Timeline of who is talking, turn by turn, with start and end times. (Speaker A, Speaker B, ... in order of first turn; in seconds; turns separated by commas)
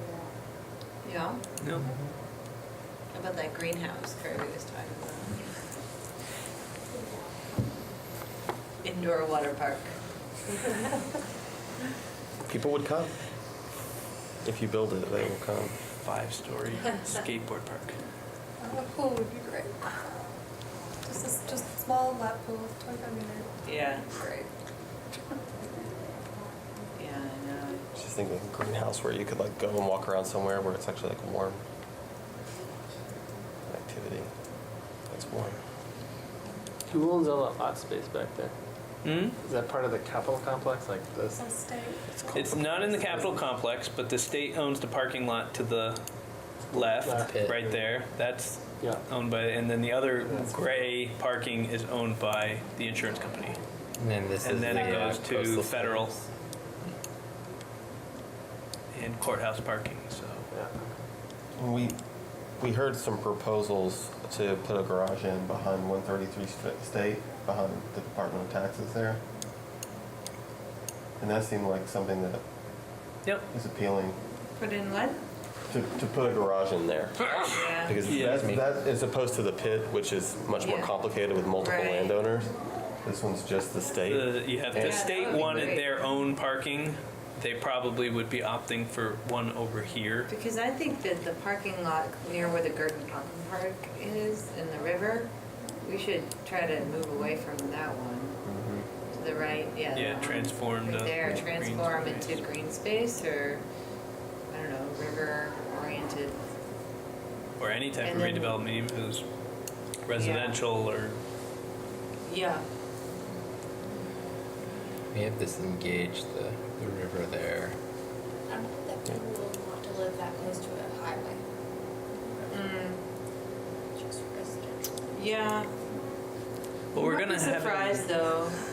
Speaker A: 1.0-1.4, Speaker B: 1.6-1.9, Speaker A: 3.1-5.5, Speaker A: 8.8-9.9, Speaker C: 12.5-13.1, Speaker C: 14.4-15.8, Speaker B: 16.0-17.9, Speaker D: 18.6-19.7, Speaker D: 21.1-24.5, Speaker A: 23.6-24.1, Speaker A: 27.0-27.8, Speaker C: 27.9-31.6, Speaker C: 33.7-34.3, Speaker C: 35.1-35.6, Speaker E: 36.9-38.5, Speaker B: 39.0-39.4, Speaker E: 39.4-41.4, Speaker D: 41.4-42.5, Speaker E: 42.3-43.4, Speaker B: 42.3-46.0, Speaker B: 46.7-53.6, Speaker E: 47.0-47.9, Speaker F: 47.3-47.6, Speaker E: 50.2-50.6, Speaker F: 54.0-56.2, Speaker B: 54.4-56.1, Speaker D: 54.6-55.3, Speaker B: 58.9-60.5, Speaker E: 60.5-60.8, Speaker C: 61.6-62.0, Speaker C: 62.6-69.2, Speaker C: 71.2-72.4, Speaker C: 73.5-74.2, Speaker A: 74.6-75.2, Speaker C: 75.7-82.5, Speaker B: 77.3-78.5, Speaker A: 77.5-78.0, Speaker F: 78.0-78.6, Speaker A: 80.6-80.9, Speaker A: 81.6-82.2, Speaker C: 83.0-85.7, Speaker B: 84.0-90.3, Speaker A: 84.8-85.9, Speaker A: 90.3-95.3, Speaker A: 95.8-98.4, Speaker C: 98.5-98.9, Speaker A: 99.1-103.6, Speaker B: 100.0-102.4, Speaker A: 104.5-106.4, Speaker B: 107.6-109.2, Speaker A: 108.0-108.6, Speaker B: 110.0-111.2, Speaker A: 110.2-110.6, Speaker A: 112.3-112.7, Speaker F: 115.1-117.8, Speaker G: 118.5-121.4, Speaker A: 122.5-123.0, Speaker G: 124.0-125.2, Speaker A: 125.1-125.7, Speaker B: 126.9-128.1, Speaker A: 127.0-128.6